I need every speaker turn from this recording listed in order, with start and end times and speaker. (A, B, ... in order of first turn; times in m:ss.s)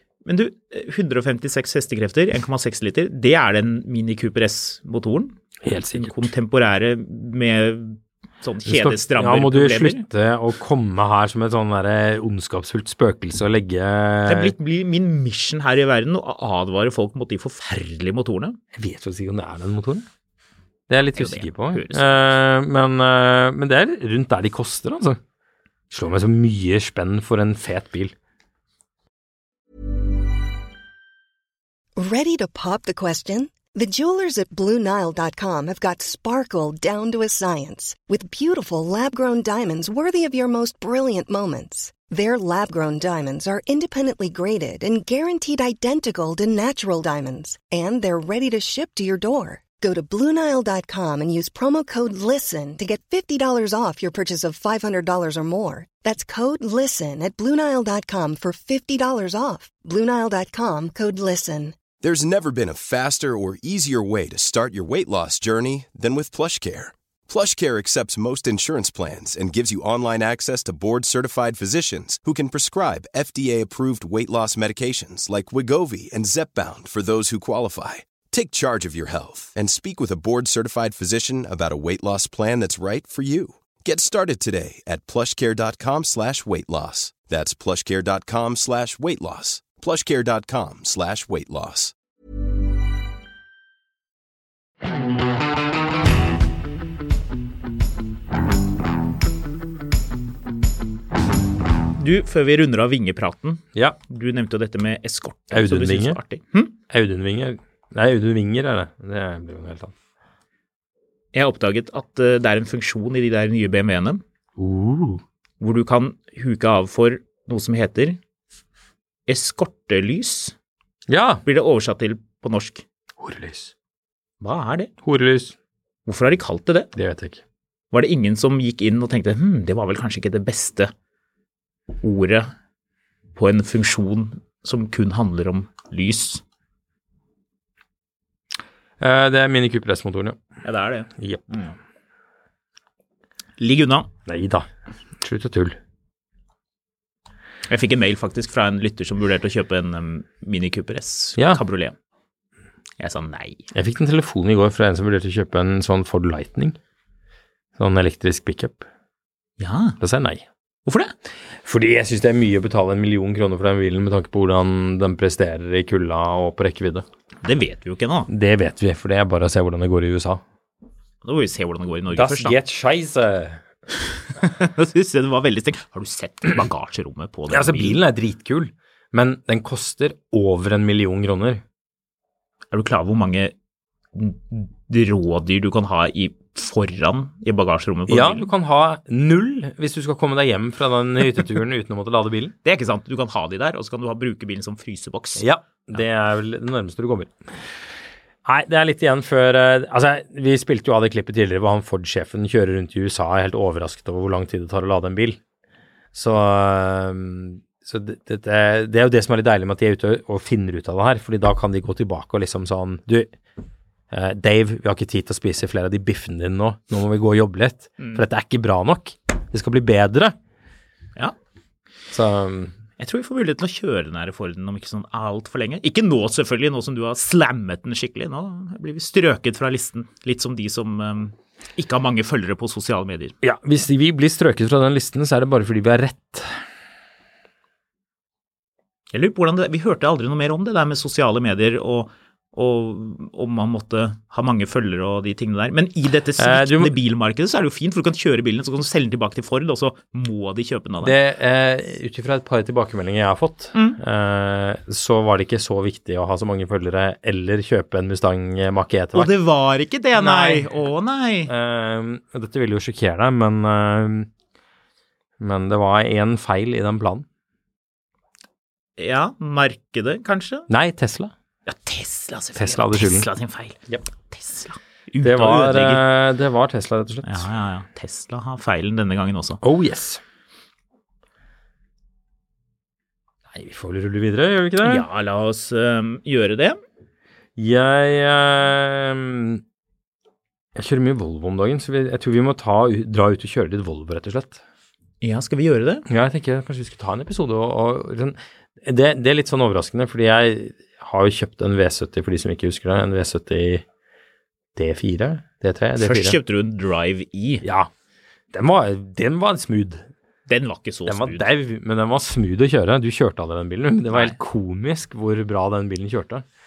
0:00.3-0:05.4 A
0:05.6-0:06.3 B
0:05.9-0:10.0 A
0:08.6-0:14.5 B
0:14.3-0:18.6 A
0:18.7-0:20.1 B
0:20.9-0:25.2 B
0:21.1-0:22.2 A
0:25.9-0:28.1 B
0:32.0-1:01.8 C
1:02.0-1:31.9 D
1:42.0-1:46.7 A
1:43.7-1:44.0 B
1:45.5-1:46.2 B
1:46.9-1:49.9 B
1:51.3-1:54.2 A
1:54.6-1:55.2 B
1:55.6-1:58.2 A
1:59.3-2:00.5 A
2:01.1-2:01.4 B
2:01.4-2:02.8 A
2:03.2-2:03.7 B
2:04.4-2:04.9 A
2:05.0-2:05.6 B
2:06.1-2:06.9 A
2:07.0-2:07.4 B
2:07.9-2:10.9 A
2:12.0-2:12.5 A
2:13.4-2:16.4 A
2:19.0-2:20.4 B
2:20.6-2:21.8 A
2:23.6-2:24.1 A
2:24.3-2:24.7 B
2:25.2-2:25.8 B
2:27.7-2:32.0 A
2:31.4-2:31.6 B
2:33.0-2:33.6 A
2:33.7-2:36.8 B
2:37.8-2:38.9 B
2:39.6-2:40.0 A
2:40.0-2:40.4 B
2:40.9-2:41.1 A
2:41.6-2:47.1 B
2:47.4-2:48.3 A
2:48.3-2:50.4 B
2:51.2-2:52.6 A
2:52.1-2:53.6 B
2:54.4-2:58.0 A
2:57.5-3:01.6 B
3:02.7-3:03.5 A
3:04.1-3:08.5 A
3:08.1-3:12.6 B
3:12.6-3:15.4 A
3:15.4-3:17.4 B
3:18.4-3:25.4 B
3:26.1-3:33.3 B
3:34.1-3:40.4 B
3:38.0-3:38.2 A
3:42.1-3:42.8 B
3:43.0-3:53.4 A
3:53.4-3:56.6 B
3:59.1-4:11.2 A
4:06.4-4:07.0 B
4:11.0-4:19.3 B
4:13.7-4:14.0 A
4:19.1-4:21.5 A
4:20.1-4:20.8 B
4:21.5-4:24.3 B
4:25.4-4:27.3 B
4:29.0-4:30.7 A
4:30.7-4:31.3 B
4:31.6-4:33.8 A
4:32.6-4:33.3 B
4:34.3-4:36.0 A
4:35.2-4:37.5 B
4:37.2-4:39.6 A
4:39.6-4:40.2 B
4:43.5-4:45.1 B
4:44.8-4:46.8 A
4:47.6-4:49.6 B
4:50.8-4:54.6 B
4:55.2-4:56.0 A
4:56.1-5:03.8 B
5:04.8-5:06.4 B
5:06.0-5:07.6 A
5:07.6-5:07.9 B
5:08.5-5:10.1 B
5:10.5-5:11.5 A
5:11.1-5:16.4 B
5:14.1-5:14.4 A